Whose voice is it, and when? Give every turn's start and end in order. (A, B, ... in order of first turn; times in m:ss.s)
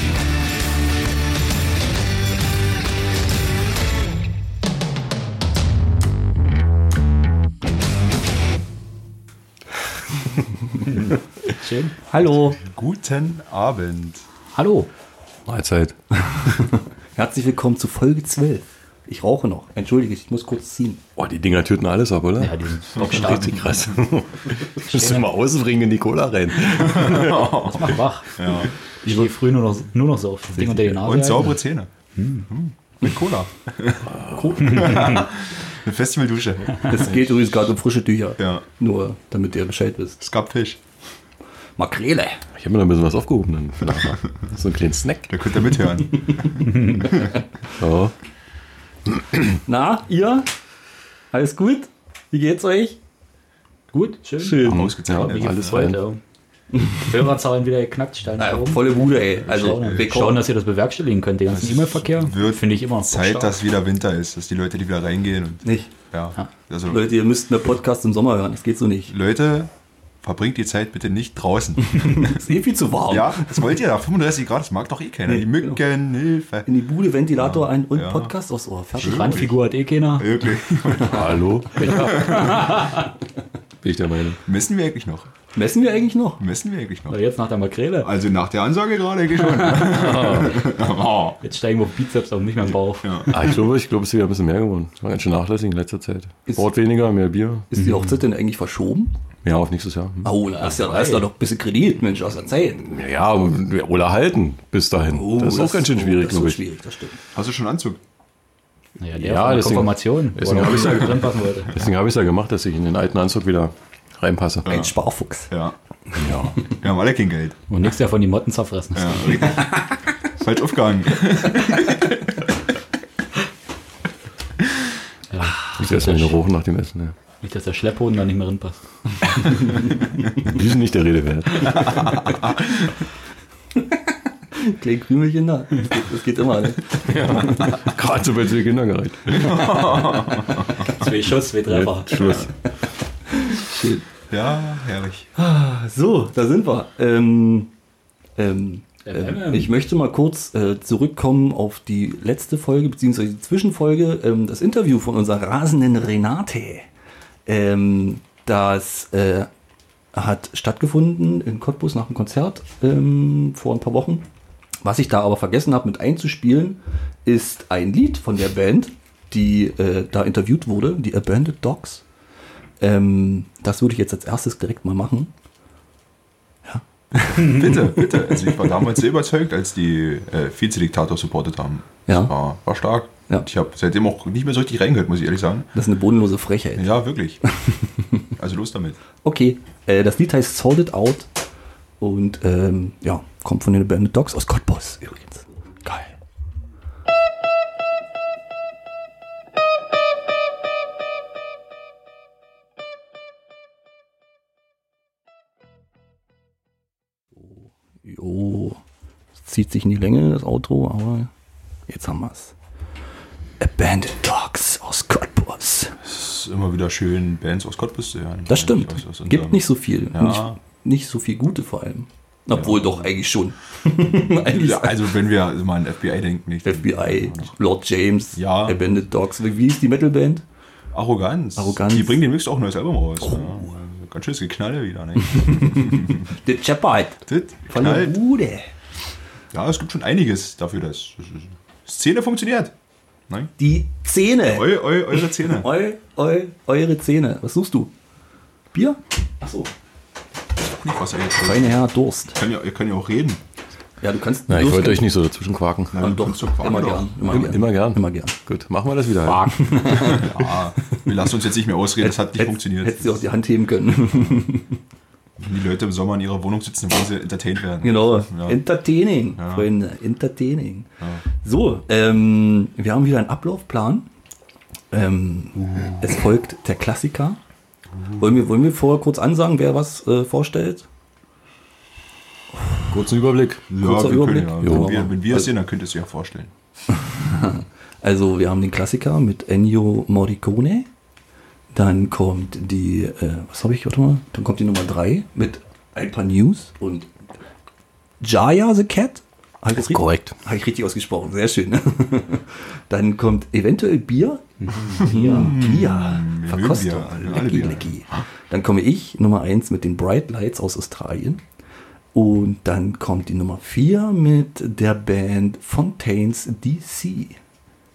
0:10.8-0:12.0 A
0:12.1-0:12.6 B
0:12.6-0:14.2 C
0:14.5-0:14.9 A
0:15.5-0:16.0 D
0:16.6-0:21.0 B
0:21.2-0:27.5 D
0:22.4-0:23.9 A
0:24.8-0:25.3 A
0:26.8-0:28.7 C
0:27.2-0:31.6 A
0:30.6-0:31.9 C
0:32.2-0:32.5 A
0:32.5-0:37.1 C
0:34.1-0:34.4 D
0:34.3-0:35.2 B
0:36.8-0:40.2 B
0:38.4-0:38.6 C
0:40.2-0:40.8 C
0:41.8-0:42.4 B
0:42.6-0:45.4 D
0:45.3-0:47.3 C
0:47.7-0:48.1 D
0:49.7-0:50.5 B
0:51.3-0:53.0 B
0:53.9-0:56.2 A
0:54.4-0:54.8 B
0:54.6-0:55.9 C
0:54.6-0:56.0 D
0:56.8-1:03.6 A
0:58.4-1:00.4 B
0:59.4-1:00.1 C
1:01.5-1:07.1 C
1:05.6-1:05.9 B
1:06.9-1:09.1 B
1:09.1-1:09.7 C
1:10.2-1:12.3 C
1:11.9-1:13.7 B
1:13.1-1:16.7 C
1:15.2-1:15.8 B
1:16.7-1:19.5 B
1:17.3-1:18.3 C
1:19.0-1:22.6 C
1:19.0-1:20.3 A
1:21.0-1:22.8 D
1:21.9-1:23.0 A
1:23.8-1:24.4 D
1:24.4-1:25.3 C
1:25.6-1:26.4 B
1:26.4-1:27.2 C
1:27.1-1:28.1 A
1:28.0-1:31.4 C
1:29.4-1:30.5 A
1:29.9-1:30.6 D
1:31.4-1:33.3 A
1:33.0-1:33.6 C
1:33.3-1:37.7 D
1:37.7-1:39.1 B
1:37.8-1:38.2 A
1:39.4-1:40.3 D
1:40.2-1:42.8 B
1:40.6-1:41.2 A
1:42.8-1:46.6 D
1:45.1-1:47.2 B
1:47.3-1:48.0 C
1:49.0-1:51.8 A
1:49.2-1:54.7 D
1:54.6-1:54.9 C
1:54.6-1:55.5 B
1:55.5-1:55.8 C
1:56.1-1:56.7 D
1:56.7-1:57.6 C
1:57.7-1:59.7 A
1:58.9-1:59.8 C
2:00.4-2:02.4 C
2:05.3-2:06.3 A
2:05.8-2:07.1 D
2:07.4-2:10.0 A
2:10.4-2:12.2 D
2:11.9-2:12.4 C
2:14.5-2:17.6 B
2:17.0-2:20.2 D
2:19.3-2:20.9 C
2:20.8-2:22.5 A
2:21.7-2:22.5 D
2:23.4-2:24.0 B
2:24.3-2:25.3 C
2:25.4-2:27.7 B
2:28.4-2:36.9 B
2:29.0-2:29.7 A
2:37.4-2:39.5 B
2:40.1-2:44.2 B
2:44.8-2:52.0 B
2:52.8-2:55.3 B
2:56.6-2:58.7 B
2:57.3-3:05.7 C
2:57.4-2:57.7 A
3:02.1-3:02.3 B
3:05.7-3:06.9 B
3:06.8-3:07.4 C
3:08.4-3:09.0 C
3:09.2-3:11.3 B
3:12.0-3:16.1 B
3:27.5-3:28.8 B
3:29.4-3:31.3 B
3:31.9-3:32.5 B
3:33.6-3:36.0 B
3:36.0-3:40.6 C
3:38.5-3:45.1 B
3:42.5-3:43.0 C
3:44.1-3:47.5 C
3:46.6-3:50.4 B
3:48.3-3:48.8 C
3:50.9-3:56.3 C
3:51.6-3:52.3 B
3:53.2-3:53.7 B
3:55.3-3:58.7 B
3:57.3-3:58.2 C
3:59.5-4:02.7 C
4:03.6-4:07.9 B
4:04.5-4:05.7 C
4:08.7-4:09.7 B
4:10.6-4:13.4 C
4:11.4-4:12.4 B
4:14.0-4:15.1 B
4:14.5-4:16.1 D
4:15.9-4:17.1 C
4:16.0-4:18.3 B
4:17.2-4:19.5 D
4:19.3-4:21.0 B
4:19.9-4:23.2 C
4:22.0-4:24.8 B
4:25.4-4:28.6 C
4:27.8-4:34.1 B
4:29.4-4:29.7 C
4:34.9-4:37.4 B
4:35.6-4:36.2 C
4:37.9-4:38.4 C
4:38.2-4:40.9 B
4:42.9-4:43.7 D
4:43.7-4:46.5 C
4:43.8-4:45.5 B
4:44.6-4:45.0 D
4:47.0-4:50.9 B
4:51.7-4:57.1 B
4:58.2-5:11.4 B
4:59.7-5:00.4 D
5:04.6-5:05.6 A
5:05.2-5:08.0 C
5:12.1-5:17.4 B